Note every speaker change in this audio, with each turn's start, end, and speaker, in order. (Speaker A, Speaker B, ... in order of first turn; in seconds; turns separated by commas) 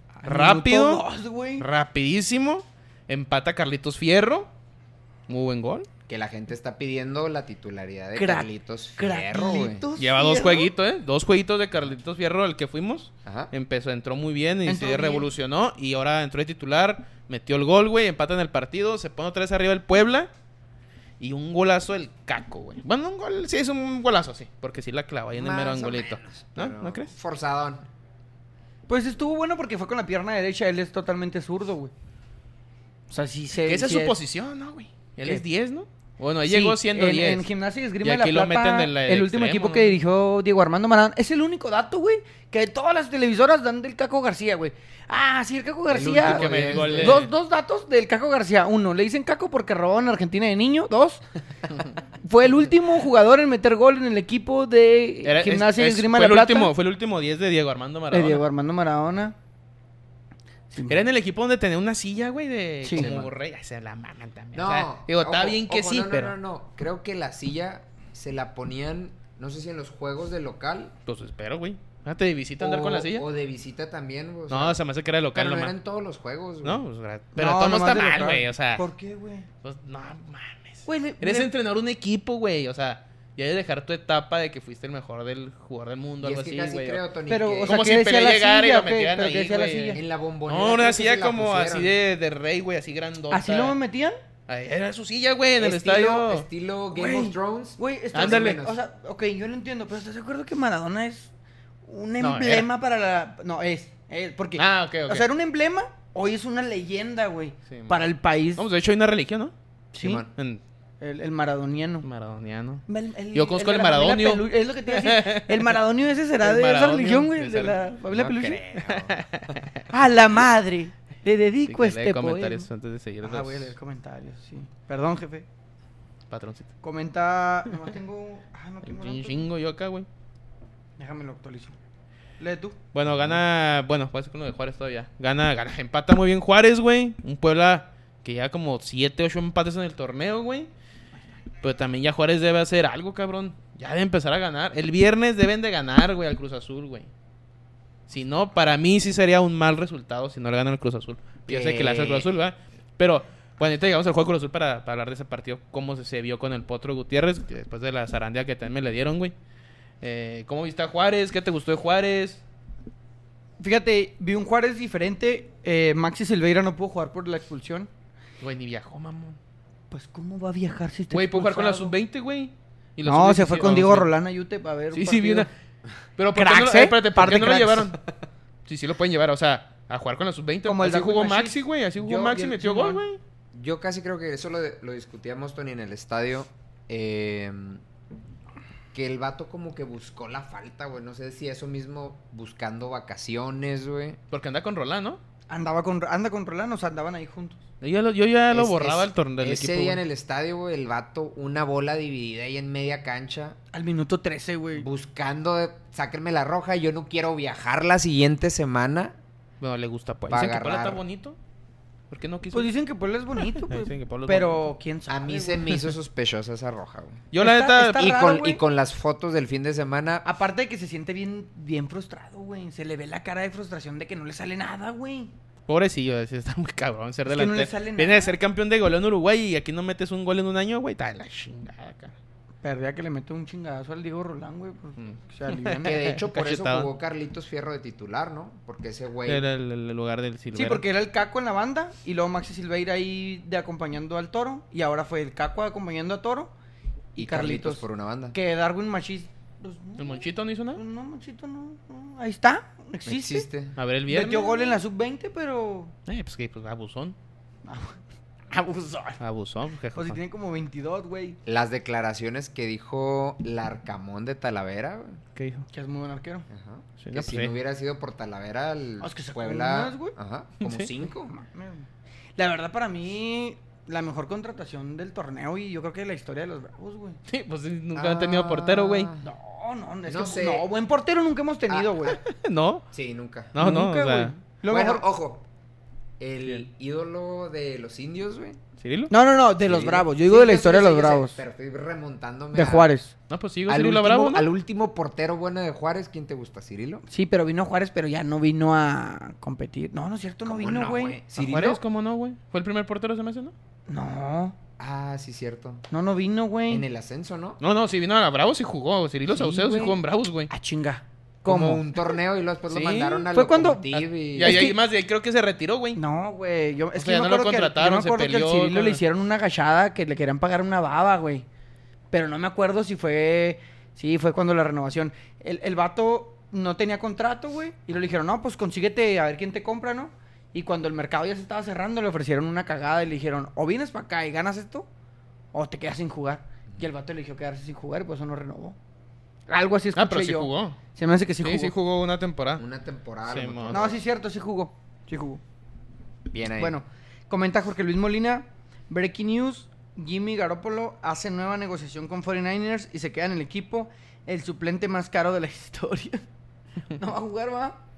Speaker A: 0.2-1.6, Speaker B: 0.2-1.0, Speaker B: 1.6-4.5, Speaker B: 5.3-5.9, Speaker C: 6.1-9.8, Speaker A: 8.1-10.7, Speaker B: 10.0-20.3, Speaker C: 13.2-13.5, Speaker A: 14.7-15.3, Speaker B: 21.2-27.1, Speaker C: 25.3-27.9, Speaker A: 28.9-31.9, Speaker A: 33.1-34.2, Speaker B: 33.6-37.5, Speaker A: 36.4-51.2, Speaker B: 38.0-40.0, Speaker C: 45.9-47.3, Speaker B: 46.2-47.3, Speaker A: 52.2-56.7, Speaker B: 55.2-58.4, Speaker A: 58.1-59.3, Speaker A: 60.7-61.0, Speaker B: 60.9-66.3, Speaker C: 63.0-63.3, Speaker C: 64.5-70.9, Speaker B: 71.1-73.2, Speaker C: 72.6-74.8, Speaker B: 74.5-75.7, Speaker C: 75.3-76.8, Speaker B: 76.6-78.9, Speaker A: 77.3-79.5, Speaker B: 79.6-87.0, Speaker A: 80.8-81.5, Speaker C: 86.2-87.8, Speaker A: 87.3-90.0, Speaker B: 87.7-93.7, Speaker C: 89.9-91.9, Speaker A: 93.3-94.2, Speaker B: 94.5-96.5, Speaker C: 95.6-98.8, Speaker A: 96.9-101.3, Speaker B: 98.1-98.6, Speaker A: 101.9-108.6, Speaker B: 102.2-102.7, Speaker B: 104.6-105.2, Speaker B: 107.7-108.0, Speaker B: 108.5-109.5, Speaker A: 109.9-110.2, Speaker C: 110.0-110.3, Speaker B: 110.3-110.6, Speaker A: 111.0-112.1, Speaker B: 112.0-115.8, Speaker A: 112.9-118.6, Speaker B: 116.4-117.8, Speaker C: 118.1-119.2, Speaker B: 118.8-119.8, Speaker A: 119.9-122.7, Speaker B: 121.7-123.7, Speaker A: 123.2-125.5, Speaker B: 126.3-126.7, Speaker A: 126.8-129.4, Speaker B: 128.8-130.1, Speaker A: 131.0-131.8, Speaker A: 132.4-132.8, Speaker B: 132.9-140.7, Speaker C: 133.1-133.4, Speaker B: 141.6-147.1, Speaker B: 148.1-159.3, Speaker C: 151.5-152.3, Speaker B: 160.0-162.4, Speaker A: 163.6-167.9, Speaker B: 168.4-169.4, Speaker A: 169.9-171.9, Speaker B: 171.1-174.1, Speaker A: 173.0-175.5, Speaker B: 174.9-175.5, Speaker B: 176.2-178.0, Speaker A: 176.3-177.9, Speaker B: 178.7-183.2, Speaker A: 180.6-181.6, Speaker C: 182.0-182.5, Speaker A: 182.2-183.0, Speaker C: 183.5-187.8, Speaker C: 188.9-194.2, Speaker B: 194.3-195.2, Speaker A: 195.5-197.6, Speaker B: 197.8-200.0, Speaker C: 198.5-203.6, Speaker A: 203.7-204.8, Speaker C: 204.7-209.2, Speaker B: 209.6-211.4, Speaker C: 210.3-211.0, Speaker B: 212.1-212.7, Speaker A: 212.5-215.7, Speaker B: 213.7-214.7, Speaker C: 215.1-217.2, Speaker B: 217.3-218.1, Speaker A: 217.4-218.6, Speaker C: 218.0-220.2, Speaker A: 220.2-225.3, Speaker B: 225.7-232.1, Speaker A: 227.3-228.3, Speaker A: 232.6-236.0, Speaker B: 235.0-236.9, Speaker C: 235.8-239.4, Speaker B: 239.3-240.8, Speaker A: 240.5-246.5, Speaker A: 247.2-253.5, Speaker C: 247.2-248.3, Speaker B: 250.0-250.8, Speaker C: 253.1-253.8, Speaker B: 253.8-254.8, Speaker A: 254.1-255.9, Speaker B: 256.1-257.1, Speaker A: 257.6-258.0, Speaker A: 258.5-259.2, Speaker B: 259.2-260.2, Speaker A: 259.9-261.4, Speaker C: 261.4-265.2, Speaker B: 265.4-265.7, Speaker A: 265.7-266.5, Speaker C: 266.5-271.3, Speaker B: 267.0-267.5, Speaker A: 269.0-270.1, Speaker B: 270.6-270.9, Speaker A: 271.3-277.2, Speaker B: 277.3-279.1, Speaker C: 277.9-279.2, Speaker A: 279.2-282.2, Speaker C: 280.1-280.6, Speaker C: 281.7-282.0, Speaker B: 282.1-282.9, Speaker C: 282.9-283.5, Speaker B: 283.5-284.3, Speaker A: 283.6-285.0, Speaker C: 284.7-285.4, Speaker C: 286.2-288.6, Speaker B: 288.8-289.1, Speaker A: 289.1-291.4, Speaker C: 289.6-292.9, Speaker A: 292.5-293.1, Speaker B: 293.3-294.5, Speaker C: 293.7-297.0, Speaker A: 297.1-301.2, Speaker C: 300.4-301.8, Speaker B: 301.4-303.5, Speaker A: 303.9-304.6, Speaker C: 304.8-305.8, Speaker A: 305.9-306.8, Speaker C: 306.7-307.6, Speaker B: 307.6-310.5, Speaker C: 309.3-310.0, Speaker A: 310.5-311.8, Speaker C: 311.4-314.6, Speaker B: 312.7-313.2, Speaker A: 313.3-314.8, Speaker B: 314.3-316.0, Speaker A: 315.9-321.4, Speaker B: 316.9-319.0, Speaker A: 322.1-334.9, Speaker A: 335.5-338.8, Speaker A: 339.5-341.7, Speaker B: 339.9-340.8, Speaker B: 341.4-342.6, Speaker C: 342.6-344.0, Speaker B: 343.3-343.8, Speaker A: 343.7-345.4, Speaker C: 346.3-346.8, Speaker A: 346.6-356.2, Speaker A: 356.9-357.8